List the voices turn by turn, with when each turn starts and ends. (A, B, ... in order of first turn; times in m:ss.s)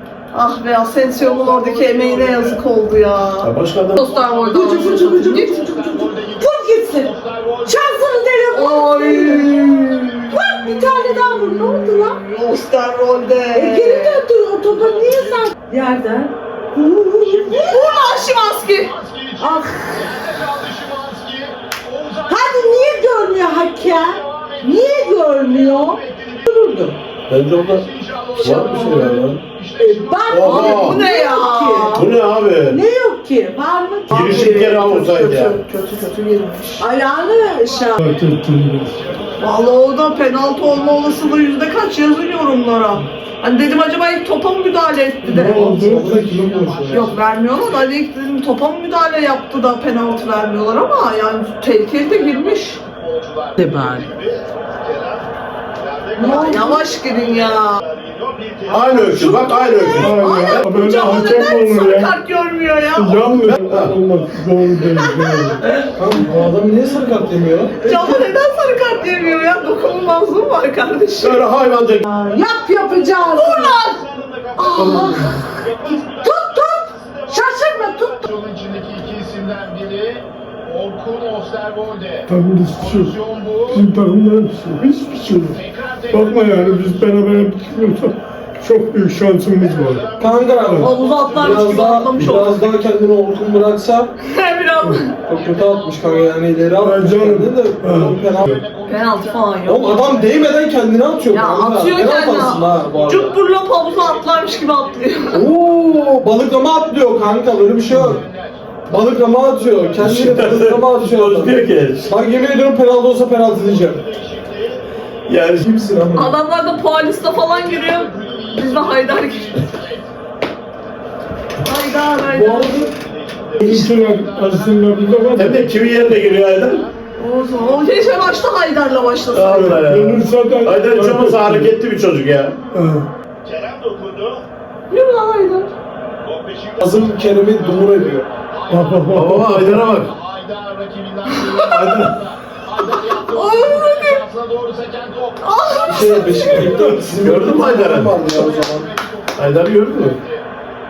0:00.3-0:05.7 A
0:01.1-0:02.6 B
0:03.4-0:04.1 C
0:04.0-0:08.4 B
0:04.5-0:07.1 D
0:07.6-0:12.2 D
0:08.5-0:14.2 A
0:09.8-0:10.1 B
0:13.5-0:17.9 D
0:14.8-0:15.4 B
0:17.2-0:27.0 B
0:17.6-0:18.9 A
0:19.4-0:19.9 D
0:22.3-0:26.9 D
0:27.3-0:27.8 C
0:27.6-0:30.9 B
0:28.4-0:29.4 C
0:28.4-0:29.2 A
0:29.8-0:32.0 D
0:30.3-0:31.0 C
0:30.4-0:32.1 A
0:31.9-0:32.8 C
0:32.7-0:34.2 D
0:34.1-0:35.6 C
0:34.1-0:36.9 A
0:36.8-0:38.0 D
0:37.5-0:41.8 B
0:38.0-0:39.0 E
0:39.4-0:45.7 A
0:45.2-0:47.2 F
0:45.3-0:46.2 E
0:45.6-0:47.9 B
0:46.9-0:52.8 A
0:52.0-0:59.5 B
0:53.6-0:54.0 D
0:56.2-0:56.9 D
0:56.2-0:57.8 A
0:58.7-1:00.5 C
0:59.1-1:03.6 A
1:00.0-1:02.2 E
1:03.0-1:05.7 E
1:03.7-1:04.0 C
1:04.8-1:05.9 A
1:06.0-1:08.1 F
1:06.8-1:10.8 B
1:07.8-1:11.5 A
1:11.2-1:12.1 C
1:12.1-1:13.8 D
1:12.4-1:23.8 B
1:13.3-1:14.0 A
1:14.6-1:15.3 A
1:14.8-1:15.4 C
1:14.8-1:18.2 D
1:22.3-1:23.1 E
1:23.7-1:25.6 E
1:25.3-1:27.4 B
1:26.1-1:30.2 E
1:29.6-1:32.1 B
1:30.2-1:34.1 F
1:30.8-1:32.6 A
1:34.2-1:35.1 A
1:34.8-1:35.1 E
1:35.1-1:36.7 B
1:35.3-1:38.5 F
1:36.8-1:38.6 E
1:38.1-1:41.4 B
1:38.9-1:40.1 A
1:39.7-1:43.4 F
1:41.3-1:45.5 A
1:42.2-1:46.2 B
1:45.3-1:48.2 F
1:47.5-1:50.2 B
1:48.9-1:54.0 F
1:50.0-1:52.1 C
1:52.0-1:52.7 B
1:53.4-1:54.8 B
1:55.3-1:55.7 C
1:55.6-1:56.4 F
1:56.1-1:59.7 A
1:57.2-2:00.1 B
2:01.6-2:02.8 A
2:02.3-2:02.9 D
2:02.3-2:08.7 B
2:03.6-2:05.7 E
2:05.4-2:06.8 C
2:07.2-2:09.8 A
2:09.3-2:12.6 C
2:09.4-2:11.7 E
2:12.7-2:13.1 E
2:13.4-2:14.5 B
2:14.9-2:15.7 A
2:16.2-2:19.2 B
2:16.8-2:18.3 F
2:18.7-2:19.8 E
2:19.1-2:20.1 C
2:19.8-2:30.5 B
2:21.3-2:22.1 A
2:21.7-2:22.1 C
2:23.2-2:24.2 A
2:25.4-2:26.7 A
2:25.8-2:28.9 F
2:26.7-2:27.0 E
2:27.1-2:28.2 C
2:29.4-2:30.2 C